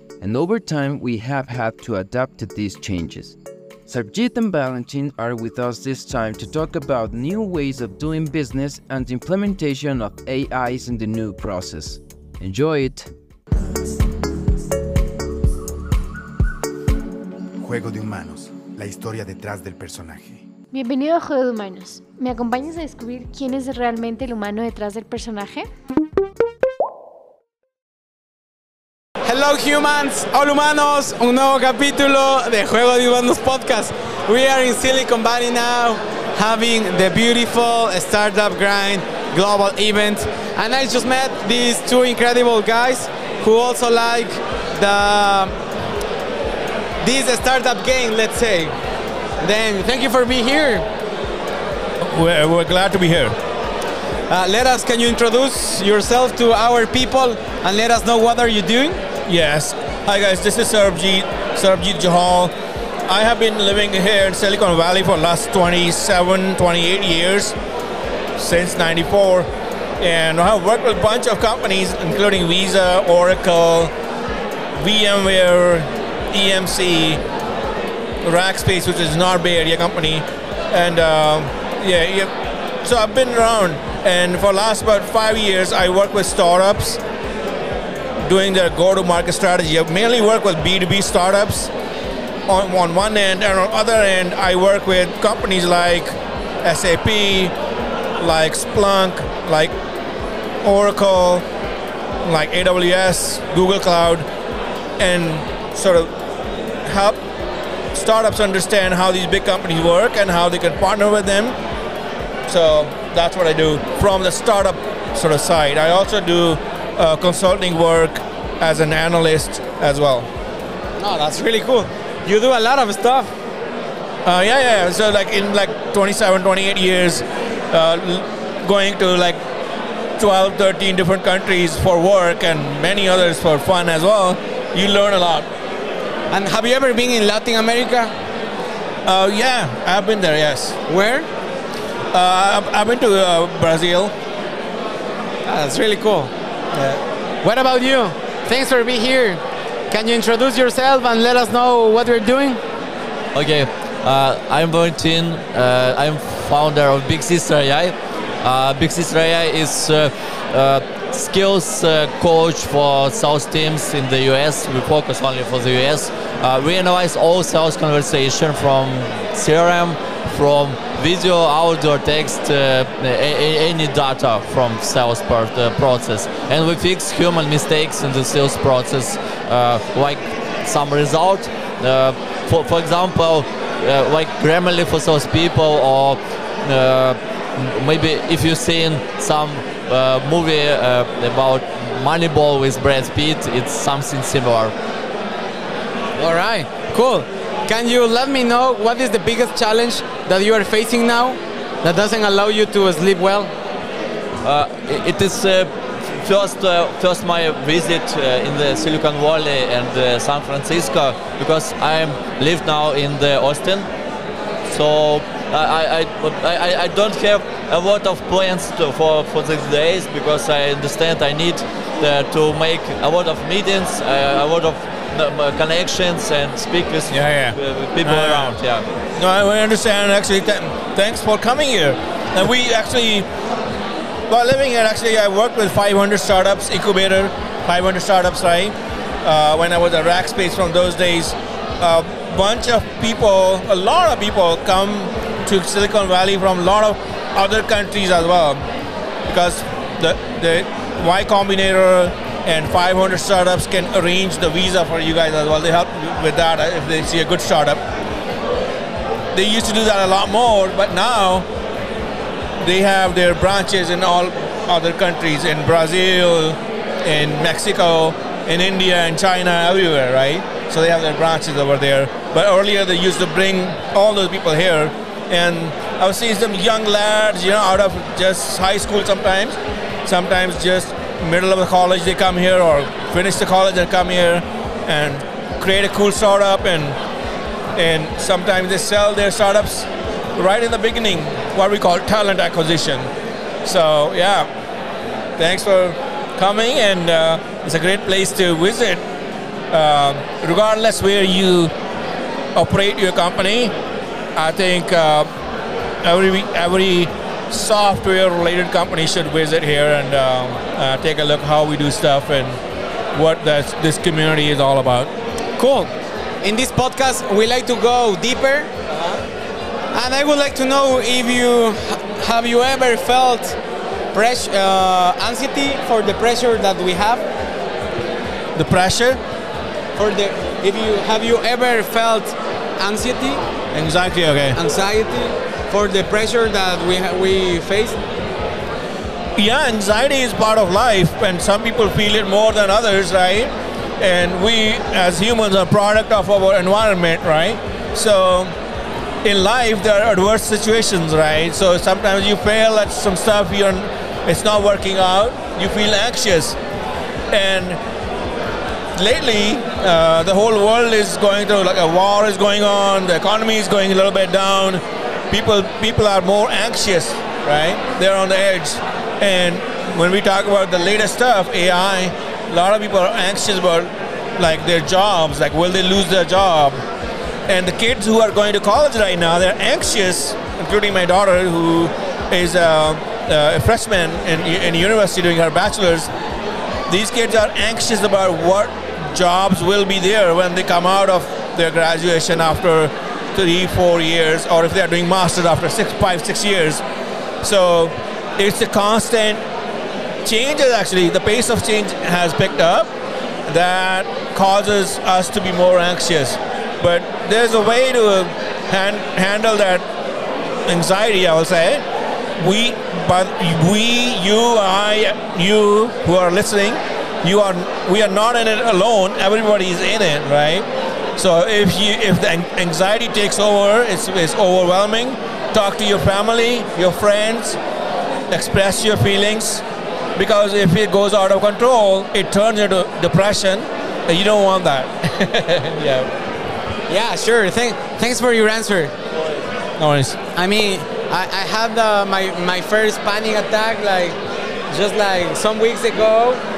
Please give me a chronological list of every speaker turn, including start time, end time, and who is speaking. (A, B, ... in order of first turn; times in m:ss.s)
0:00.2-0:13.1 A
0:17.6-0:20.5 B
0:20.7-0:25.7 C
0:29.2-0:45.6 D
0:47.0-0:48.8 D
0:49.4-0:50.9 D
0:52.0-0:53.4 E
0:54.3-0:59.0 D
0:59.2-1:02.5 E
1:03.1-1:07.6 E
1:08.4-1:09.5 E
1:10.0-1:13.9 E
1:14.8-1:17.2 E
1:18.2-1:22.3 E
1:22.8-1:27.0 E
1:28.2-1:31.7 E
1:32.5-1:37.5 E
1:38.2-1:39.7 E
1:40.6-1:41.4 E
1:42.2-1:44.3 E
1:45.0-1:46.1 E
1:46.8-1:47.2 E
1:47.9-1:51.6 E
1:52.5-2:00.3 E
2:01.0-2:03.3 D
2:04.2-2:09.4 E
2:10.2-2:15.5 E
2:16.3-2:18.1 D
2:19.0-2:20.8 E
2:20.9-2:21.3 D
2:22.1-2:24.1 E
2:25.4-2:32.6 D
2:33.3-3:14.7 F
3:16.2-3:23.5 D
3:24.4-3:33.9 F
3:34.6-3:48.8 F
3:47.1-3:48.6 E
3:49.2-3:53.3 E
3:54.3-4:08.6 E
4:09.2-4:17.8 E
4:19.3-4:21.5 E
4:22.6-4:47.0 E
4:47.7-4:53.1 E
4:53.6-4:54.5 E
4:55.4-4:59.0 E
4:59.7-5:01.7 E
5:02.5-5:03.7 E
5:04.4-5:05.3 E
5:06.0-5:12.6 E
5:13.1-5:15.1 E
5:15.6-5:15.9 D
5:16.4-5:19.2 D
5:19.9-5:23.6 D
5:24.1-5:27.2 D
5:28.6-5:29.2 E
5:29.9-5:33.4 D
5:33.7-5:34.6 E
5:34.5-5:38.0 D
5:39.4-5:48.5 E
5:49.2-5:56.6 E
5:57.3-5:57.8 E
5:59.0-6:16.8 E
6:17.5-6:26.1 E
6:26.9-6:36.8 E
6:37.4-6:39.4 E
6:40.2-6:42.9 E
6:43.5-6:49.8 E
6:50.7-6:51.8 E
6:52.4-7:07.6 E
7:08.3-7:09.6 E
7:10.2-7:16.1 E
7:16.9-7:18.9 D
7:19.8-7:20.2 E
7:20.3-7:24.2 D
7:24.7-7:26.4 D